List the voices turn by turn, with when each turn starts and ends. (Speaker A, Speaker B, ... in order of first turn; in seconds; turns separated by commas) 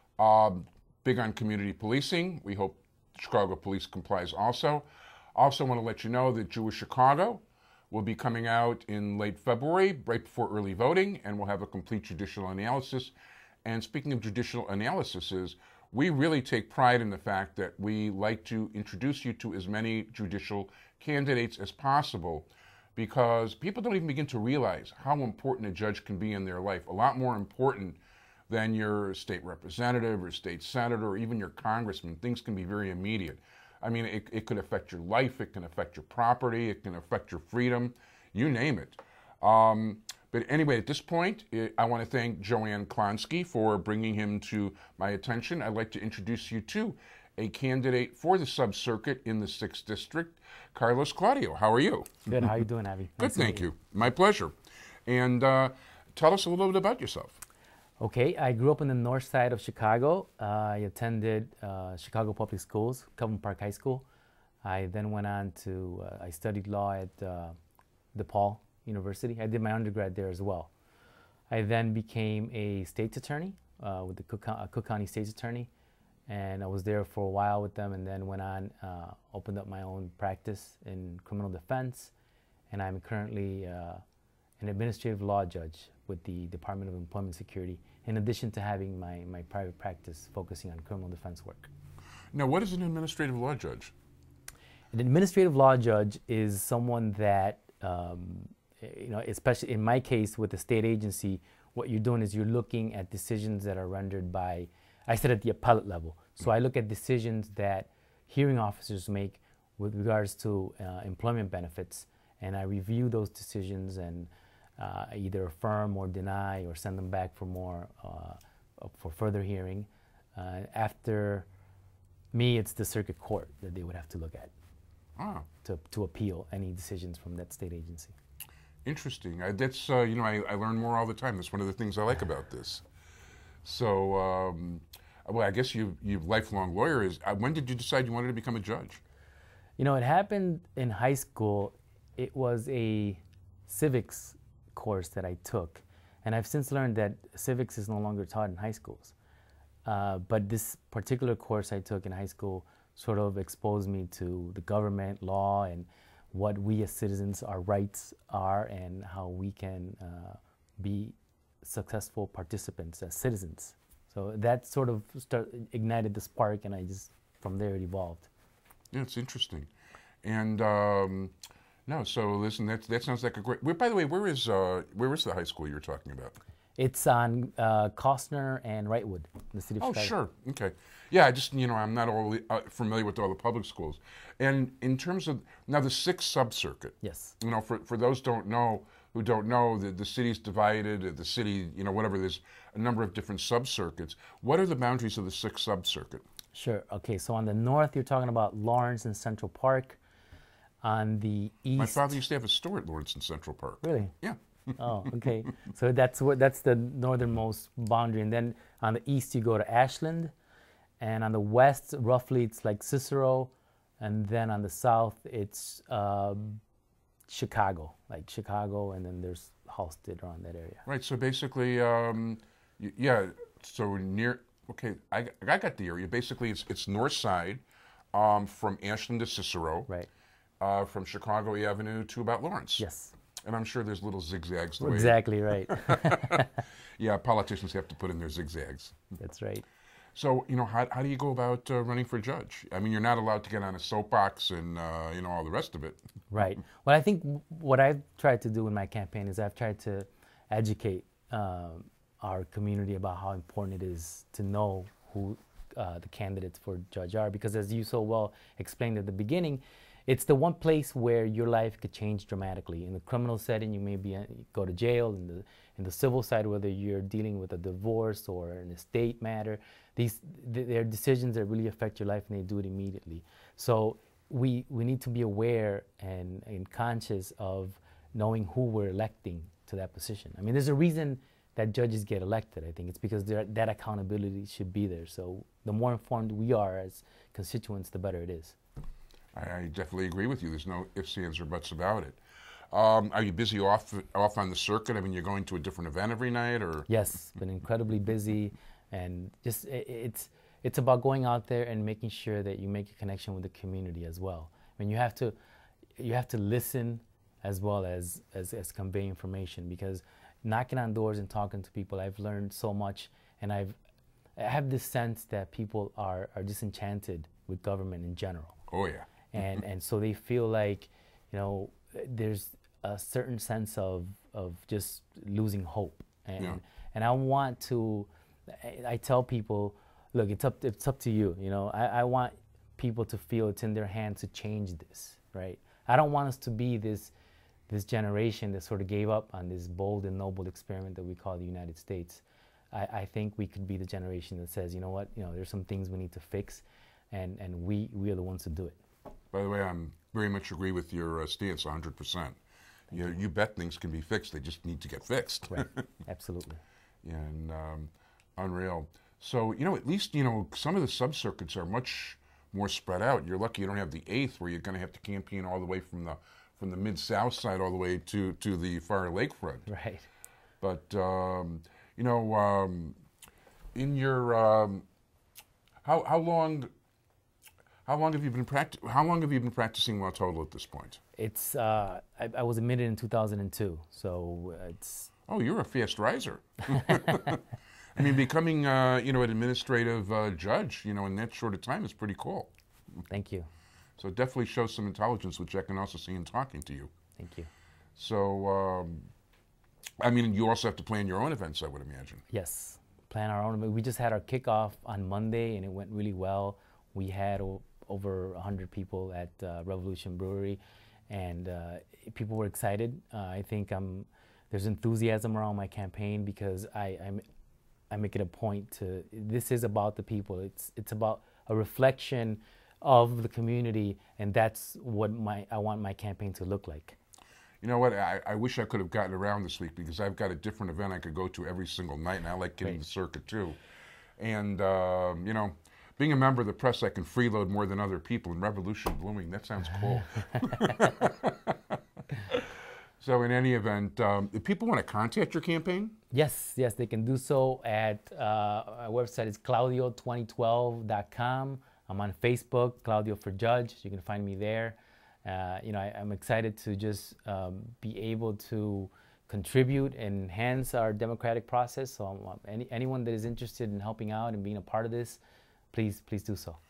Speaker A: 0.2-13.1, Speaker A: 13.6-52.3, Speaker B: 52.3-53.7, Speaker A: 53.2-54.5, Speaker A: 55.1-57.4, Speaker B: 58.0-64.0, Speaker B: 64.6-67.5, Speaker B: 68.1-70.7, Speaker B: 71.5-75.7, Speaker B: 76.3-82.1, Speaker B: 82.7-84.0, Speaker B: 84.6-91.7, Speaker A: 92.3-93.9, Speaker B: 94.9-121.5, Speaker B: 122.3-124.5, Speaker A: 125.2-125.5, Speaker B: 125.6-128.1, Speaker A: 128.8-132.8, Speaker A: 133.6-139.0, Speaker B: 139.8-149.1, Speaker B: 149.8-168.3, Speaker A: 168.9-169.7, Speaker A: 170.2-171.3, Speaker A: 171.9-176.4, Speaker B: 176.8-180.1, Speaker A: 179.8-196.2, Speaker B: 187.0-187.3, Speaker B: 196.5-200.0, Speaker B: 200.8-202.2, Speaker A: 201.8-204.8, Speaker B: 203.8-204.2, Speaker B: 204.8-210.3, Speaker B: 211.0-216.6, Speaker B: 217.3-220.8, Speaker A: 220.8-227.6, Speaker A: 228.1-229.9, Speaker A: 230.6-232.8, Speaker B: 232.8-233.1, Speaker A: 233.4-236.4, Speaker B: 234.8-236.6, Speaker A: 237.0-239.0, Speaker B: 239.2-239.6, Speaker A: 240.2-246.0, Speaker B: 246.3-288.6, Speaker A: 289.3-292.2, Speaker A: 292.7-296.9, Speaker B: 296.9-305.4, Speaker B: 306.0-313.8, Speaker B: 314.4-318.6, Speaker A: 318.7-319.1, Speaker B: 319.3-337.1, Speaker B: 337.7-348.8, Speaker A: 349.3-352.4, Speaker A: 352.9-355.8, Speaker B: 355.5-356.6, Speaker A: 357.0-369.7, Speaker B: 369.7-370.1, Speaker A: 370.6-373.0, Speaker A: 373.7-374.8, Speaker A: 375.8-376.7, Speaker A: 377.9-381.0, Speaker B: 381.2-385.1, Speaker A: 385.3-392.5, Speaker B: 393.1-393.5, Speaker A: 394.0-396.9, Speaker B: 397.2-397.5, Speaker A: 398.0-399.1, Speaker A: 400.0-402.2, Speaker B: 402.3-417.2, Speaker B: 417.9-427.0, Speaker A: 427.6-433.6, Speaker A: 434.2-441.6, Speaker A: 443.0-445.9, Speaker B: 446.1-465.2, Speaker B: 465.7-466.6